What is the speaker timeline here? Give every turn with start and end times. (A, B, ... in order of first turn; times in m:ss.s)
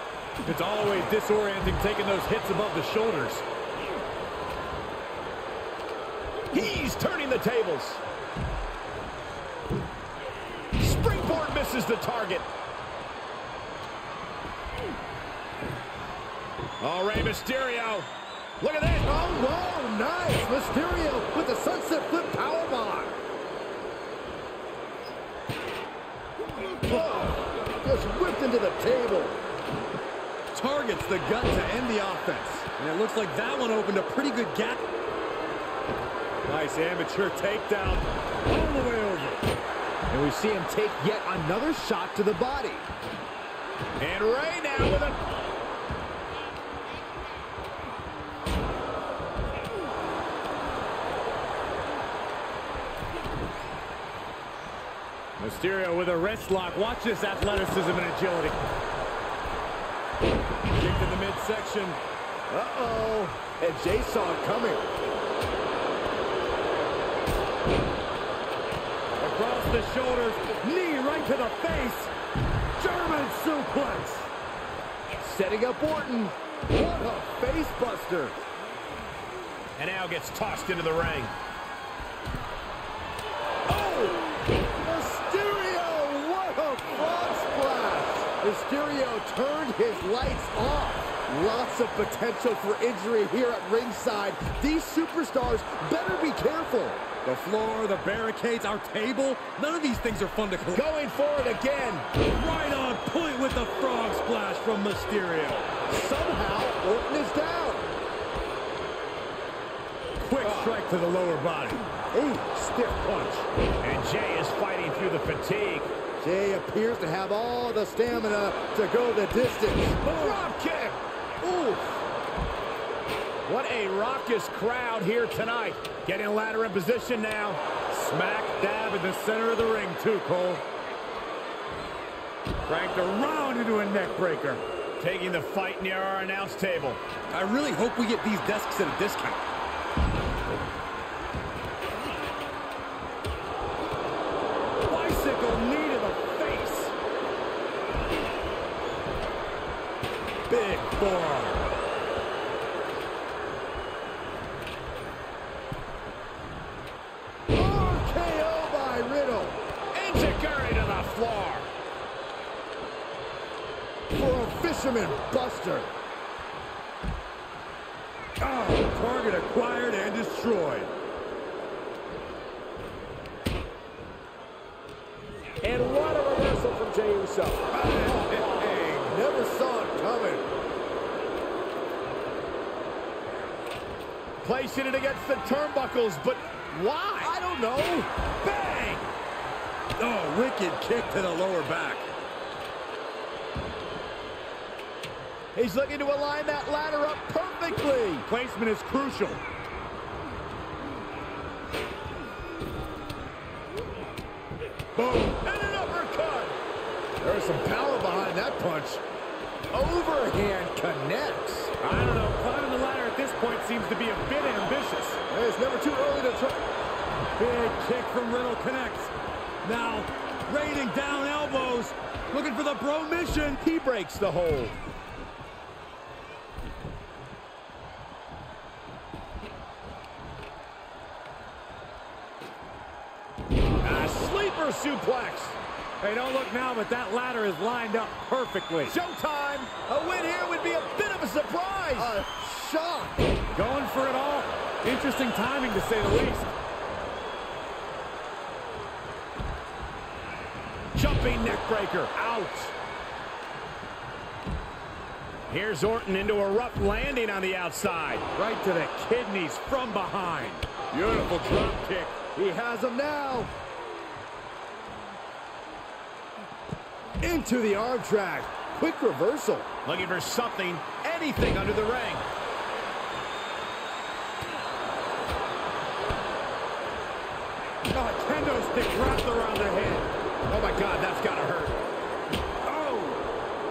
0:00.4-0:03.4 A
0:06.5-0:08.0 B
0:10.8-0:12.5 B
0:16.8-0:18.1 B
0:18.6-0:19.1 B
0:19.0-0:23.1 C
0:26.8-0:29.4 C
0:30.5-0:34.8 A
0:36.4-0:39.4 A
0:40.1-0:42.9 C
0:44.0-0:45.2 B
0:55.4-0:58.6 A
1:00.8-1:02.0 A
1:02.5-1:04.8 C
1:09.1-1:12.1 A
1:12.8-1:14.3 A
1:15.1-1:18.4 C
1:19.8-1:21.3 B
1:23.7-1:24.3 C
1:24.8-1:37.0 C
1:37.2-1:40.8 A
1:40.7-1:42.1 B
1:42.3-1:45.7 A
1:45.9-1:47.9 C
1:50.2-1:51.8 A
1:50.4-1:50.7 C
1:52.1-1:53.4 C
1:53.8-1:55.9 B
1:56.2-2:00.5 C
2:00.0-2:01.0 B
2:01.4-2:02.0 C
2:03.4-2:07.6 B
2:07.9-2:10.6 A
2:12.7-2:14.6 A
2:15.0-2:17.0 B
2:17.3-2:19.4 A
2:24.8-2:26.9 A
2:30.5-2:31.6 A
2:37.5-2:39.6 C
2:39.9-2:41.7 B
2:44.1-2:45.9 C
2:48.4-2:50.9 A
2:55.6-2:58.8 B
2:57.7-2:59.2 A
2:59.0-3:00.4 C
3:04.4-3:07.3 B
3:07.2-3:08.1 C
3:08.5-3:09.0 A
3:10.0-3:12.0 A
3:15.5-3:18.2 B
3:18.2-3:19.4 A
3:25.1-3:26.5 B
3:27.2-3:29.0 C
3:29.7-3:31.7 C
3:31.8-3:35.2 A
3:35.3-3:36.6 C
3:37.4-3:43.6 A
3:43.6-3:44.8 B
3:53.8-3:55.6 B
3:56.0-3:58.9 A
3:58.8-4:02.1 B
4:01.9-4:03.2 C
4:03.5-4:06.5 A
4:10.9-4:12.7 B
4:15.5-4:18.2 B
4:18.3-4:22.2 A
4:22.3-4:23.5 C
4:27.2-4:29.7 C
4:29.8-4:32.2 B
4:37.9-4:40.1 A
4:40.5-4:41.8 B
4:42.6-4:43.2 A